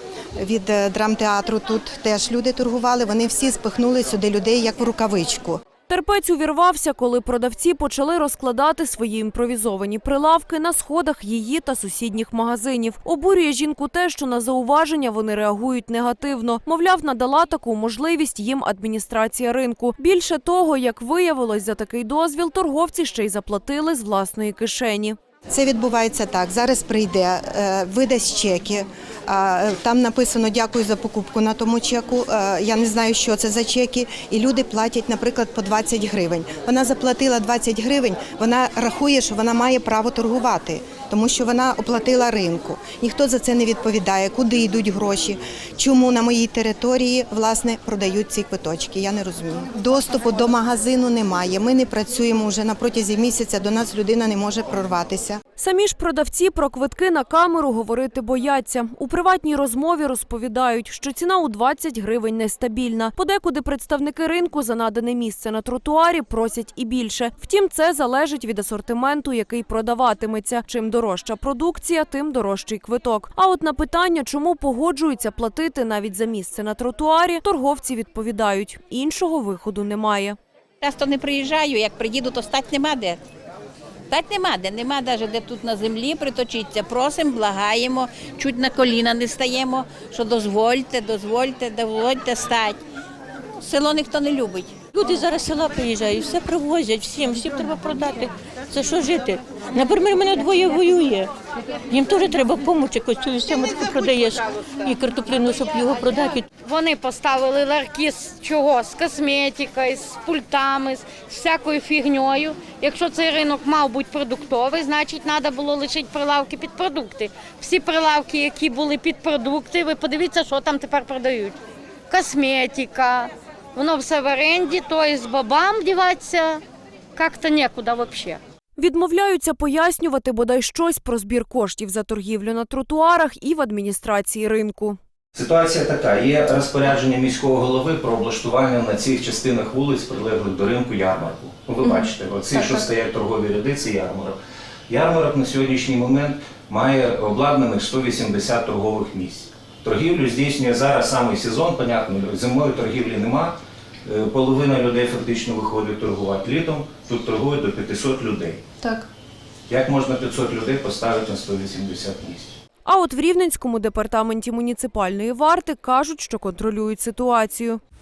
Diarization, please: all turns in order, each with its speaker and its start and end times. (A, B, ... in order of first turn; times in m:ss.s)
0:00.4-0:05.6 A
0:05.9-0:25.2 B
0:25.5-0:55.4 A
0:55.6-1:20.4 B
1:20.8-1:23.2 C
1:24.1-1:32.8 C
1:33.6-1:34.7 C
1:34.9-1:41.3 D
1:41.9-1:46.4 D
1:46.6-2:01.6 E
2:02.1-2:06.6 E
2:07.2-2:08.4 E
2:08.8-2:15.0 B
2:15.3-2:24.4 F
2:24.9-2:38.6 F
2:39.7-2:42.6 F
2:42.8-2:47.8 B